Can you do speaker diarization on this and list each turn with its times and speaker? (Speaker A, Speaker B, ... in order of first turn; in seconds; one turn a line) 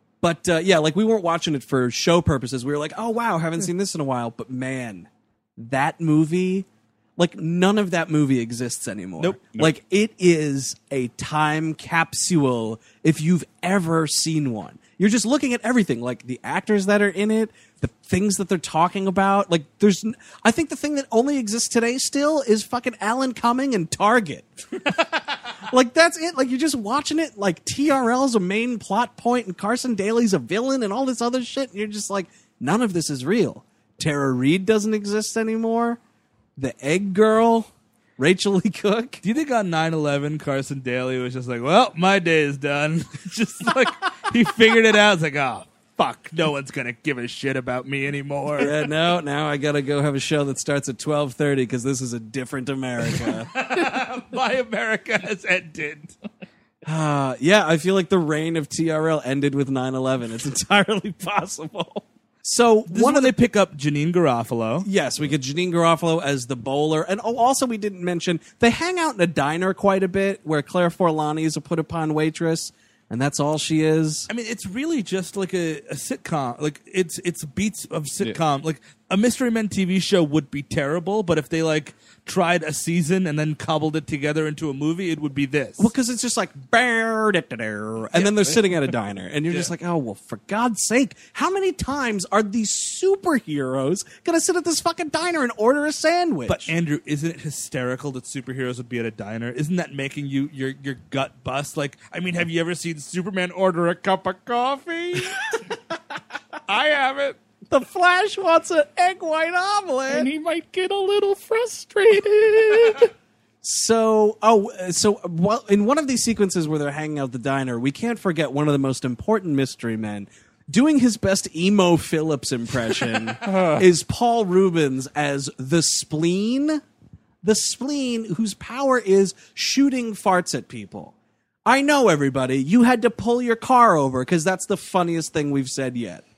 Speaker A: 0.2-6.7
Speaker A: 7.2-25.0
Speaker A: 25.6-36.0
Speaker A: 36.6-39.2
Speaker B: 39.2-48.8
Speaker A: 48.6-53.5
Speaker B: 53.2-56.2
Speaker A: 56.8-63.4
Speaker B: 62.9-64.9
Speaker A: 64.8-74.3
Speaker B: 74.3-85.9
Speaker A: 85.8-96.7
Speaker B: 88.1-88.6
Speaker B: 96.5-105.4
Speaker B: 106.7-107.4
Speaker A: 107.7-110.3
Speaker C: 110.1-113.1
Speaker A: 113.6-126.8
Speaker C: 123.5-123.8
Speaker A: 127.4-131.1
Speaker A: 131.7-136.2